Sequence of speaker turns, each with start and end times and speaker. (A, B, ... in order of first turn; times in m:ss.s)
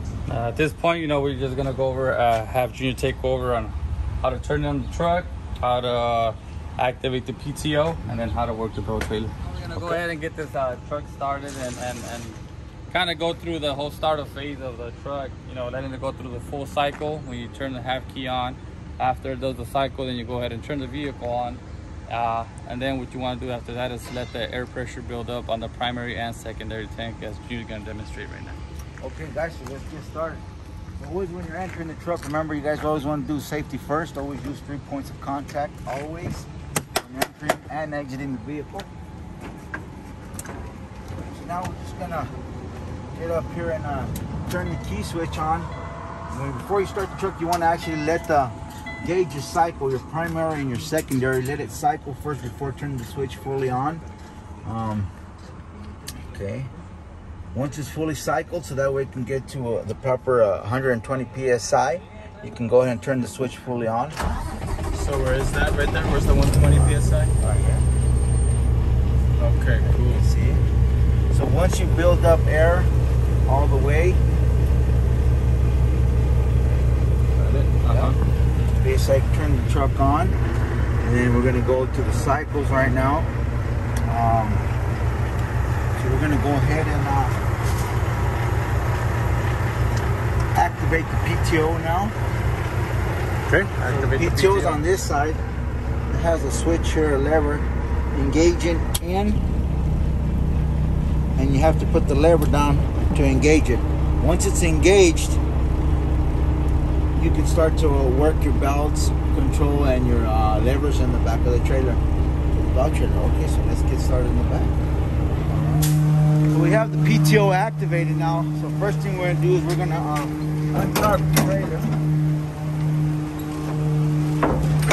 0:00.3-0:12.4 A
0:12.9-0:28.6 A
0:29.0-0:30.4 B
0:31.0-0:36.5 B
0:37.0-0:38.9 B
0:41.2-0:42.3 B
0:43.1-0:45.7 B
0:46.3-0:54.0 B
0:54.6-0:55.1 B
0:56.3-0:56.7 B
0:57.5-1:04.2 B
1:04.9-1:07.3 C
1:07.4-1:07.8 B
1:09.4-1:10.2 C
1:09.8-1:10.6 B
1:11.3-1:12.9 B
1:13.5-1:14.2 B
1:17.4-1:18.2 A
1:17.9-1:18.1 B
1:18.8-1:20.4 B
1:21.0-1:23.3 B
1:24.0-1:24.6 B
1:26.0-1:27.4 B
1:30.5-1:32.1 B
1:33.5-1:34.8 C
1:33.8-1:35.4 B
1:36.1-1:39.4 B
1:41.4-1:45.4 B
1:47.2-1:52.0 B
1:52.5-1:54.7 B
1:55.5-1:55.9 B
1:56.5-2:01.9 B